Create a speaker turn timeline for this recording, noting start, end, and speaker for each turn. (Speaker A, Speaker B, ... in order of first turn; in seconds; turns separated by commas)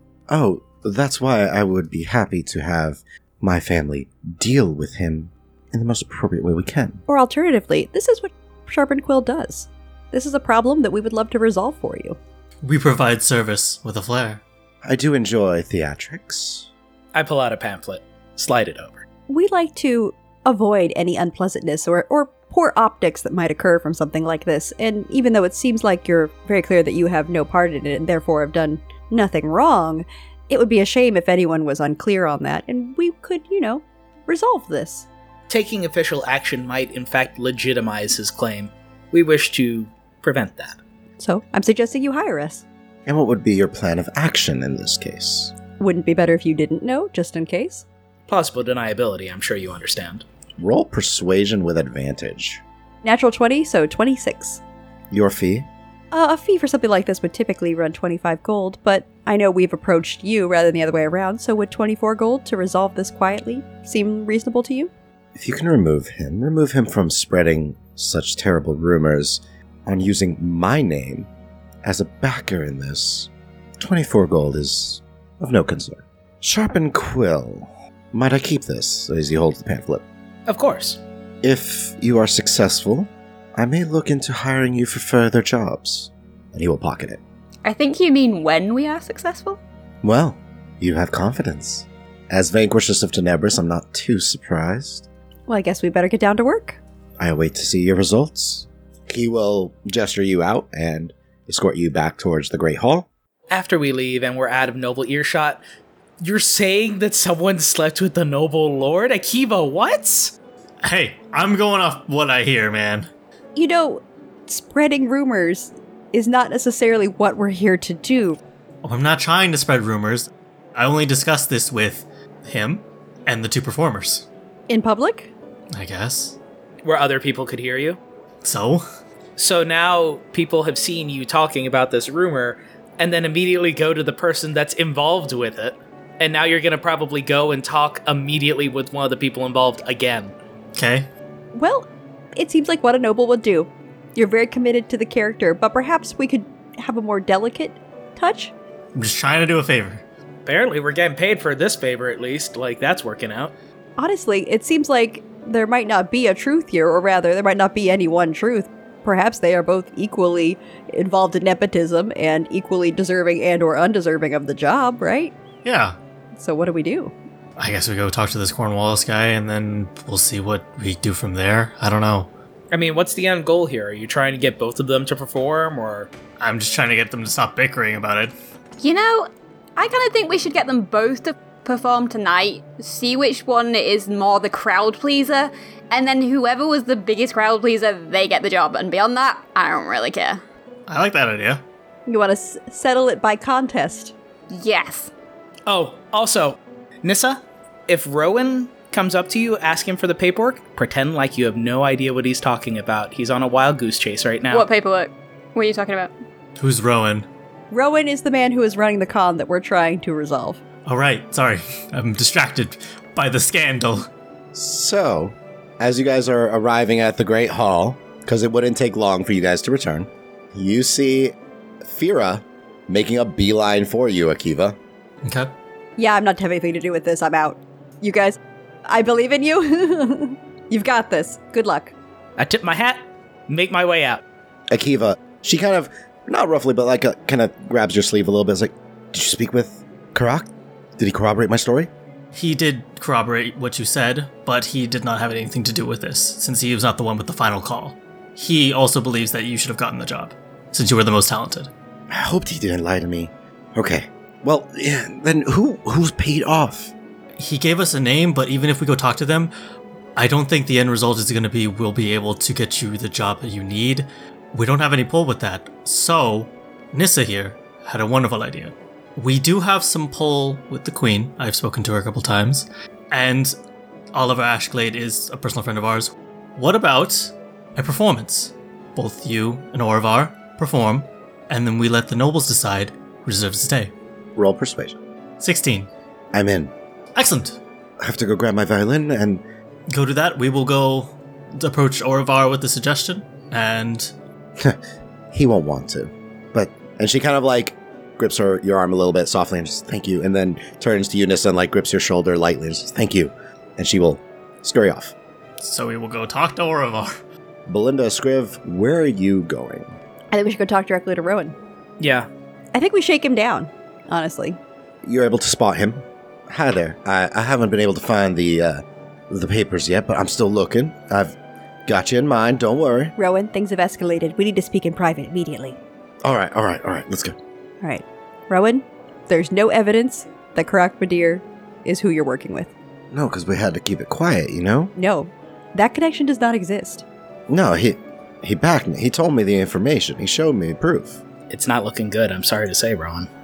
Speaker A: 0.3-7.0, Speaker B: 7.1-12.2, Speaker C: 12.6-14.4, Speaker A: 14.8-16.7, Speaker D: 17.1-19.0, Speaker B: 19.3-35.1, Speaker D: 35.5-40.8, Speaker B: 41.2-42.6, Speaker A: 43.0-45.5, Speaker B: 45.8-47.8, Speaker D: 48.3-50.2, Speaker A: 50.6-52.6, Speaker B: 53.0-54.6, Speaker A: 55.1-55.7, Speaker B: 56.1-64.9, Speaker A: 65.3-71.3, Speaker A: 71.8-80.0, Speaker D: 80.5-81.0, Speaker A: 81.4-87.2, Speaker E: 87.6-89.6, Speaker A: 90.0-95.1, Speaker B: 95.5-96.8, Speaker A: 97.2-103.1, Speaker D: 103.5-105.6, Speaker D: 106.2-110.3, Speaker C: 110.8-113.1, Speaker B: 113.5-118.4, Speaker C: 118.8-124.3, Speaker B: 124.7-125.3, Speaker C: 125.7-126.4, Speaker D: 126.8-128.0, Speaker C: 128.4-128.8, Speaker D: 129.4-140.3, Speaker C: 140.7-141.1, Speaker B: 141.5-148.5, Speaker C: 148.9-150.0, Speaker D: 150.4-153.5, Speaker B: 154.0-165.3, Speaker C: 165.6-165.9, Speaker B: 166.4-167.1, Speaker C: 167.6-172.3, Speaker D: 172.7-176.1, Speaker C: 176.4-178.3, Speaker E: 178.8-190.4, Speaker C: 190.9-191.6, Speaker B: 192.1-194.1, Speaker E: 194.5-195.1, Speaker D: 195.7-204.7, Speaker E: 204.5-206.1, Speaker C: 206.6-207.3, Speaker B: 207.7-210.6, Speaker C: 210.8-214.1, Speaker A: 214.5-221.3, Speaker A: 221.8-224.8, Speaker C: 225.2-225.5, Speaker B: 226.0-231.9, Speaker D: 232.4-234.2, Speaker A: 234.7-241.9, Speaker C: 242.3-251.7, Speaker A: 252.1-256.9, Speaker C: 257.4-259.5, Speaker C: 260.1-273.6, Speaker C: 274.1-283.9, Speaker A: 284.4-285.0, Speaker C: 285.4-285.9, Speaker A: 286.3-286.7, Speaker C: 287.1-287.6, Speaker A: 288.0-289.4, Speaker C: 289.9-294.1, Speaker A: 295.3-305.1, Speaker C: 305.6-307.2, Speaker A: 307.7-309.9, Speaker B: 310.3-311.6, Speaker D: 312.0-312.3, Speaker B: 312.7-314.6, Speaker A: 315.0-321.3, Speaker A: 321.9-323.1, Speaker B: 323.2-325.8, Speaker A: 326.2-327.4, Speaker B: 327.8-332.7, Speaker A: 333.1-334.9, Speaker B: 334.9-337.0, Speaker A: 337.5-341.2, Speaker D: 341.5-343.3